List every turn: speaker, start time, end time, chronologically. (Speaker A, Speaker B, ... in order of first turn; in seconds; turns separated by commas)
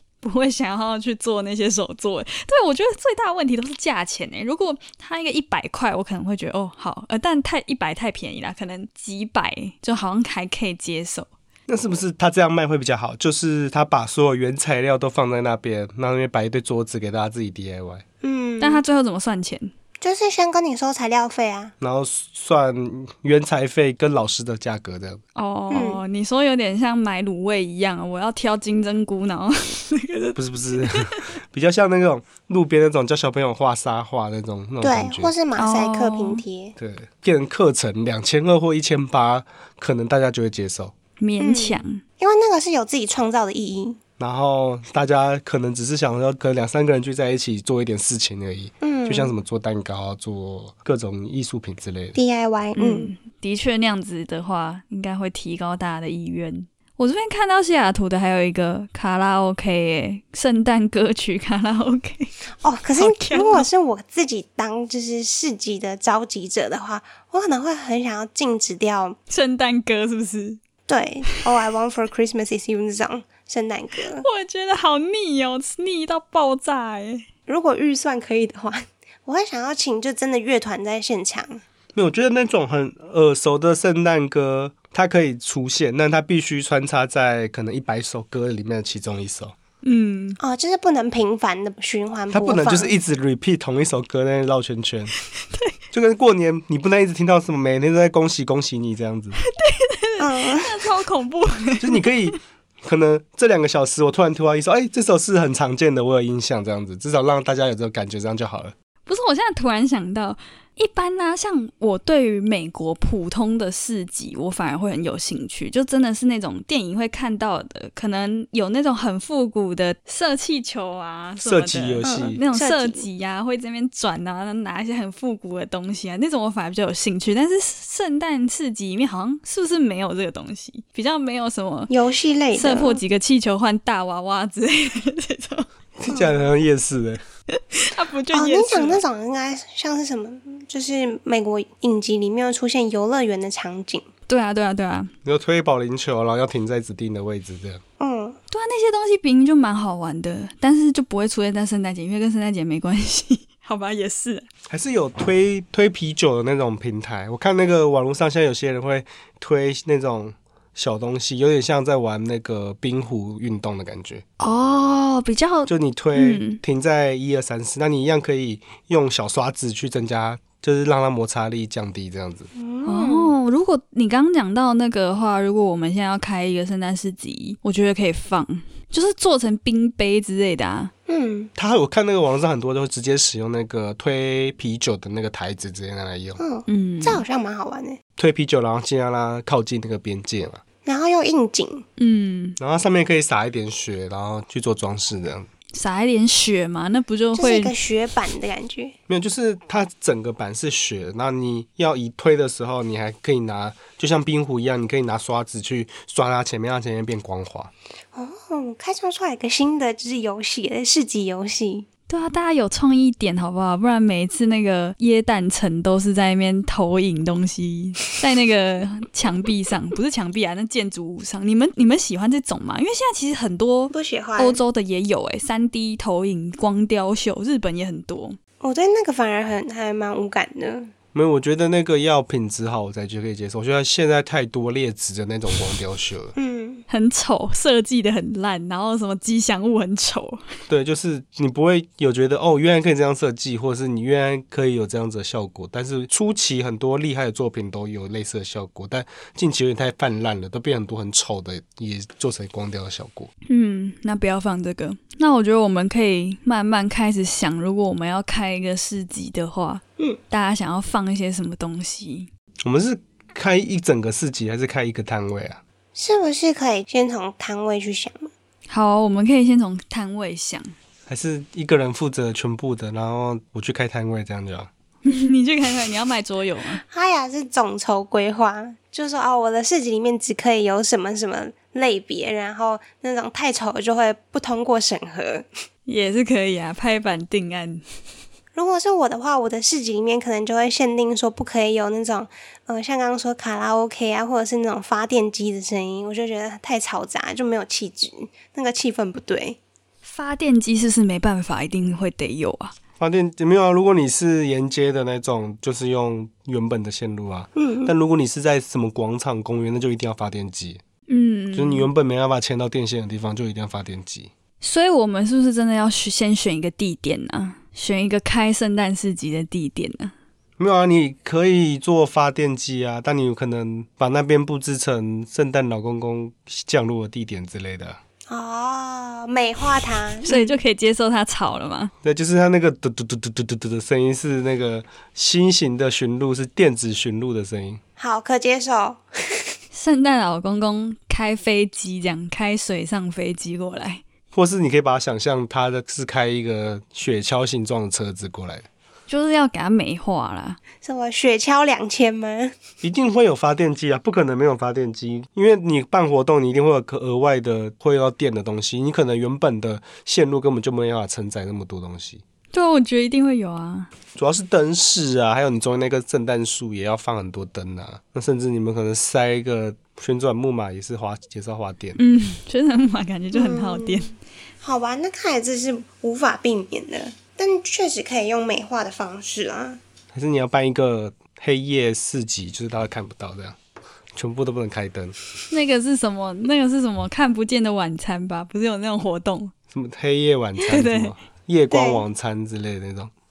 Speaker A: 0.2-11.3, Speaker B: 11.7-18.0, Speaker C: 18.2-18.8, Speaker A: 18.6-19.7, Speaker C: 20.0-21.7, Speaker B: 21.8-25.2, Speaker A: 25.4-31.2, Speaker C: 25.7-26.0, Speaker B: 30.4-35.3, Speaker C: 34.8-36.7, Speaker A: 35.5-36.4, Speaker B: 36.8-40.9, Speaker A: 41.2-42.0, Speaker C: 41.4-44.0, Speaker B: 44.2-52.2, Speaker C: 48.8-49.3, Speaker C: 52.1-53.1, Speaker A: 52.7-62.3, Speaker C: 62.6-69.2, Speaker A: 63.0-63.7, Speaker A: 69.3-70.6, Speaker C: 70.9-74.2, Speaker A: 74.1-77.2, Speaker C: 77.5-81.6, Speaker B: 81.9-89.5, Speaker A: 89.8-90.4, Speaker C: 90.4-92.9, Speaker B: 92.3-95.1, Speaker B: 95.9-99.4, Speaker A: 99.4-102.3, Speaker C: 100.2-100.8, Speaker B: 101.8-108.7, Speaker A: 109.1-131.9, Speaker B: 121.4-122.4, Speaker C: 122.0-123.0, Speaker C: 131.9-133.0, Speaker A: 132.5-135.7, Speaker B: 136.0-137.2, Speaker A: 137.5-139.0, Speaker C: 138.3-144.1, Speaker A: 144.3-145.1, Speaker B: 145.2-147.8, Speaker C: 148.0-148.4, Speaker A: 148.5-154.5, Speaker B: 154.7-164.2, Speaker A: 164.4-166.6, Speaker B: 165.7-172.5, Speaker C: 172.5-173.3, Speaker A: 172.8-180.9, Speaker C: 181.1-181.5, Speaker B: 181.6-186.4, Speaker C: 186.4-188.0, Speaker A: 186.7-187.2, Speaker B: 188.2-190.6, Speaker C: 190.8-191.8, Speaker A: 192.0-192.6, Speaker B: 192.6-195.5, Speaker A: 195.7-197.7, Speaker C: 197.3-198.9, Speaker B: 199.1-207.7, Speaker C: 208.1-211.9, Speaker A: 212.1-228.4, Speaker C: 223.9-224.6, Speaker C: 228.6-230.9, Speaker B: 231.1-236.3, Speaker C: 236.3-236.8, Speaker A: 236.9-240.4, Speaker B: 240.7-253.3, Speaker A: 253.5-262.3, Speaker B: 262.6-265.6, Speaker C: 265.9-268.3, Speaker A: 268.7-270.7, Speaker B: 271.1-274.7, Speaker A: 275.0-276.8, Speaker C: 276.8-285.4, Speaker A: 285.9-287.8, Speaker C: 288.5-299.6, Speaker A: 300.0-302.7, Speaker B: 303.0-310.8, Speaker C: 307.6-307.9, Speaker A: 311.1-311.9, Speaker B: 311.5-314.3, Speaker A: 314.6-320.1, Speaker B: 320.6-328.0, Speaker C: 328.3-330.6, Speaker A: 330.2-331.9, Speaker B: 332.0-337.8, Speaker C: 338.0-339.4, Speaker A: 339.7-344.0, Speaker B: 344.3-348.6, Speaker A: 349.1-350.6, Speaker C: 350.8-352.6, Speaker B: 352.8-362.2, Speaker A: 362.5-363.9, Speaker B: 364.1-372.0, Speaker A: 372.0-374.1, Speaker C: 373.3-374.1, Speaker C: 374.6-379.8, Speaker B: 380.1-383.6, Speaker B: 384.1-385.1, Speaker A: 385.5-389.5, Speaker B: 389.7-393.1, Speaker A: 390.6-391.1, Speaker C: 391.7-392.0